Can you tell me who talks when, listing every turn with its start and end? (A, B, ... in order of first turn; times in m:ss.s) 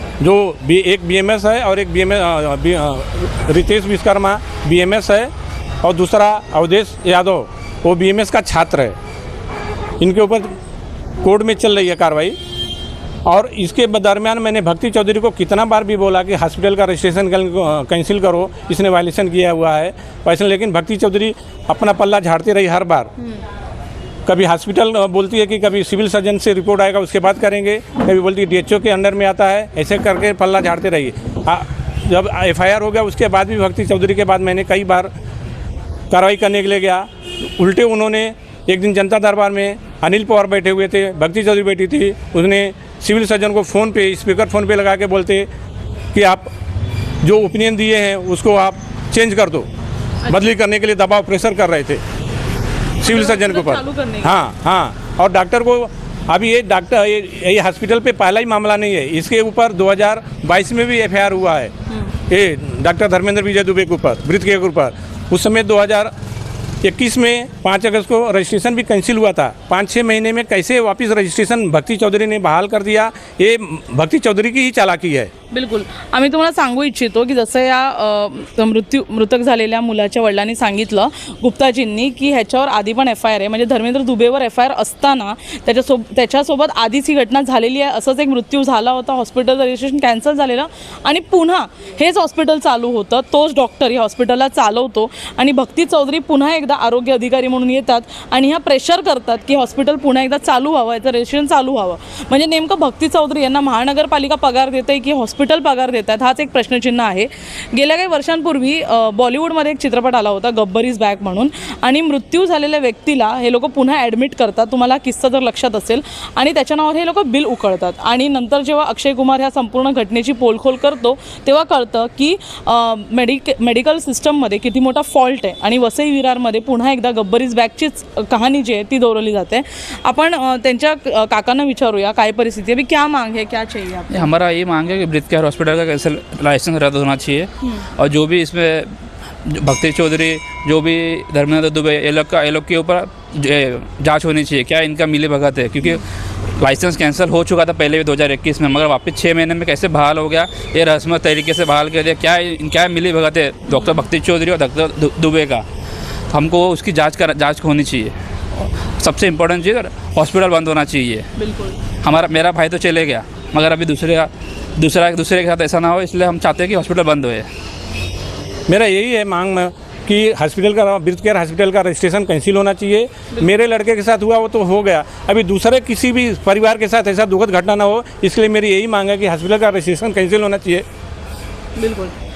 0:00.2-0:05.3 A
0:05.8-0:09.0 A
0:10.0-0:10.6 A
0:11.2-0:12.4 A
0:13.3-0:23.1 A
0:24.3-0:35.1 A
0:36.1-0:45.5 A
0:46.1-0:46.5 A
0:47.2-0:49.7 A
0:50.3-0:52.0 A
0:53.0-0:54.4 B
0:53.0-1:01.7 A
1:02.3-1:06.1 A
1:06.8-1:15.3 A
1:15.5-2:14.3 B
2:14.1-2:18.9 C
2:17.6-2:17.9 B
2:19.4-2:26.0 C
2:26.6-2:35.6 C
2:33.7-2:34.1 B
2:36.3-2:41.3 C
2:41.4-2:41.8 B
2:42.0-2:47.5 C
2:48.7-3:00.8 A
3:01.8-3:02.2 B